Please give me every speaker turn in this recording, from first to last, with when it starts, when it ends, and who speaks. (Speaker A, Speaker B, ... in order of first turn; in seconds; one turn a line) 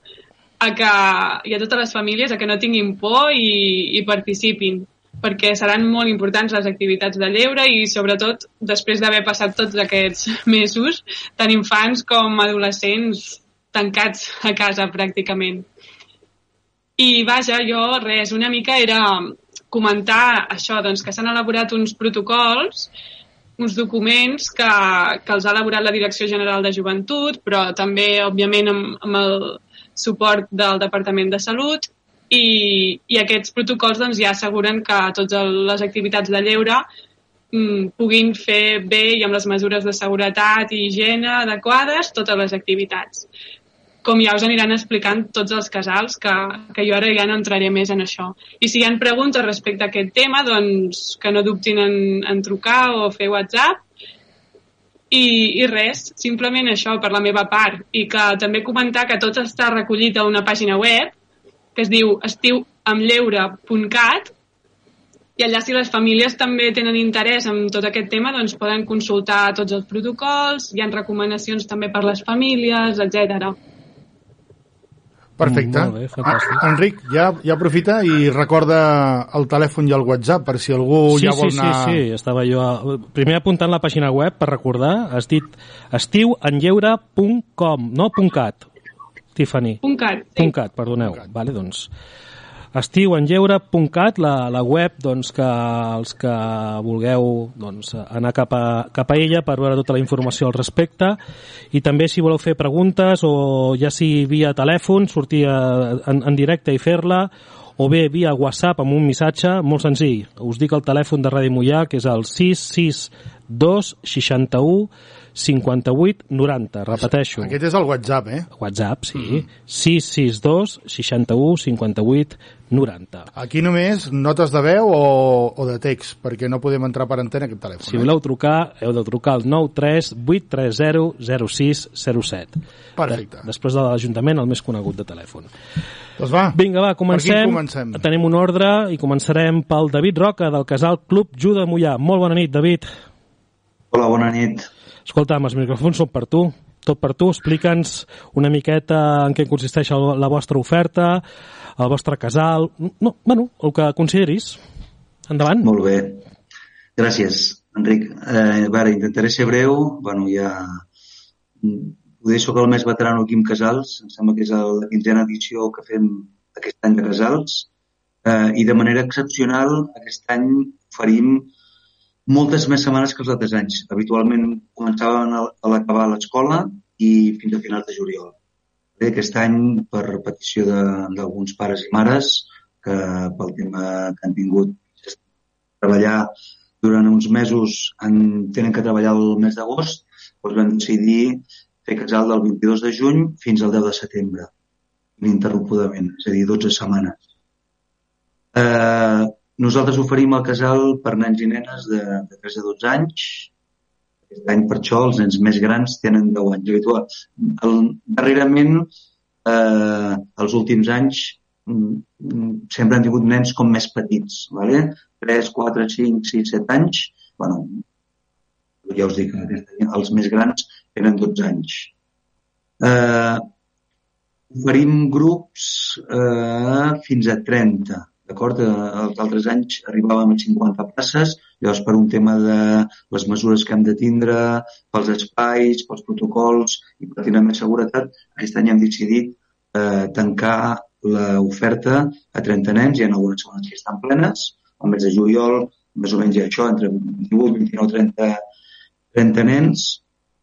Speaker A: 0.6-15.7
Speaker A: 17.0-22.9
Speaker A: 23.6-36.8
Speaker A: 37.5-43.3
Speaker A: 44.0-53.8
Speaker A: 55.1-61.2
Speaker A: 61.8-64.3
Speaker A: 65.4-73.6
Speaker B: 75.4-82.0
Speaker C: 75.4-76.6
Speaker C: 81.1-88.7
Speaker C: 89.3-89.8
Speaker A: 89.8-90.5
Speaker C: 90.4-91.9
Speaker C: 92.7-101.2
Speaker C: 101.7-117.6
Speaker B: 117.0-118.5
Speaker C: 118.6-123.3
Speaker B: 123.3-128.1
Speaker C: 127.8-135.5
Speaker B: 133.0-133.5
Speaker B: 136.2-136.6
Speaker C: 136.5-142.9
Speaker B: 137.1-138.1
Speaker D: 143.9-144.7
Speaker C: 145.1-151.2
Speaker C: 151.8-154.6
Speaker C: 155.3-155.7
Speaker D: 155.6-156.2
Speaker D: 157.0-160.8
Speaker D: 161.6-167.7
Speaker D: 168.2-171.5
Speaker D: 172.3-178.4
Speaker D: 179.0-185.2
Speaker D: 185.8-194.5
Speaker D: 195.2-197.2
Speaker D: 198.5-203.5
Speaker D: 204.3-208.9
Speaker D: 209.4-217.8
Speaker D: 218.8-221.9
Speaker D: 222.8-223.5
Speaker D: 224.5-248.4
Speaker D: 249.1-250.0